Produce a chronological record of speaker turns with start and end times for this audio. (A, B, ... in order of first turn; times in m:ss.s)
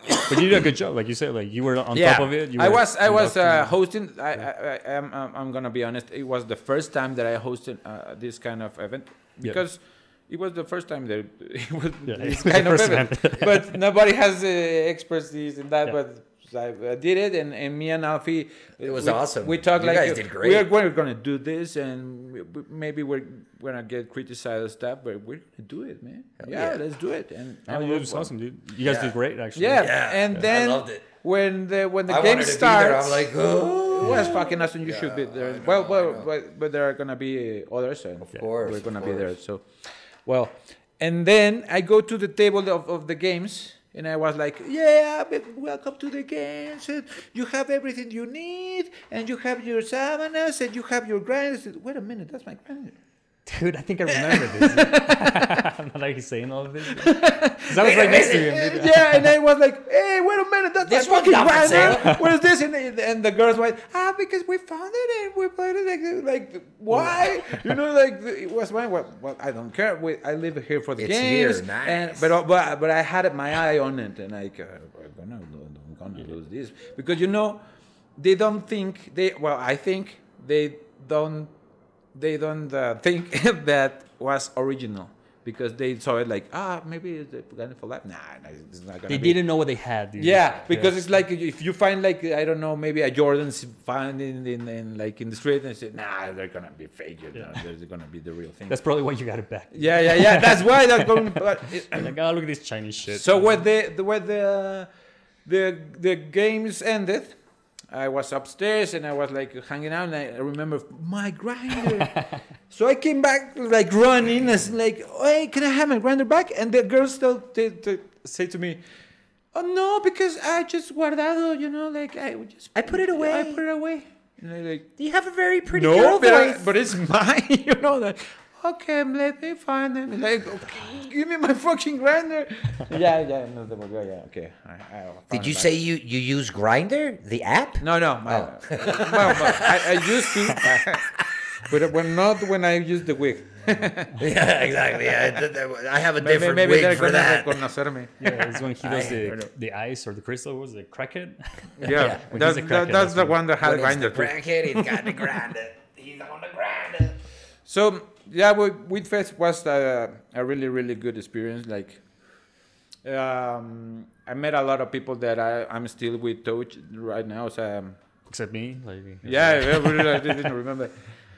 0:00.3-0:03.7 A
0:01.9-0:28.3 B
0:12.1-0:13.7 A
0:18.8-0:20.7 C
0:26.4-0:26.8 C
0:27.7-0:30.0 A
0:28.8-0:29.1 C
0:29.6-0:53.0 B
0:29.8-0:31.0 C
0:32.1-0:36.3 C
0:34.0-0:34.3 A
0:38.2-0:39.4 C
0:53.5-0:59.3 A
0:54.1-0:55.6 B
0:56.8-1:17.6 B
0:57.8-0:58.6 C
1:00.9-1:02.2 C
1:01.8-1:02.2 A
1:06.9-1:07.5 A
1:11.0-1:12.3 C
1:18.2-1:21.5 B
1:22.1-1:29.4 B
1:29.1-1:31.0 A
1:30.2-1:38.8 B
1:38.7-1:43.3 A
1:39.7-1:42.2 B
1:43.1-1:44.9 B
1:45.4-1:47.4 B
1:47.9-1:58.8 B
1:51.9-1:52.4 A
1:59.5-2:04.9 B
2:02.8-2:03.6 C
2:05.0-2:06.7 C
2:05.7-2:15.8 B
2:15.3-2:20.7 C
2:17.8-2:24.2 B
2:24.2-2:27.6 C
2:26.2-2:29.5 B
2:28.2-2:33.4 A
2:28.8-2:29.2 C
2:31.8-2:35.4 B
2:32.0-2:32.2 C
2:33.6-2:37.2 C
2:37.7-2:42.0 B
2:43.0-2:48.0 B
2:48.3-2:50.5 A
2:49.2-2:51.0 B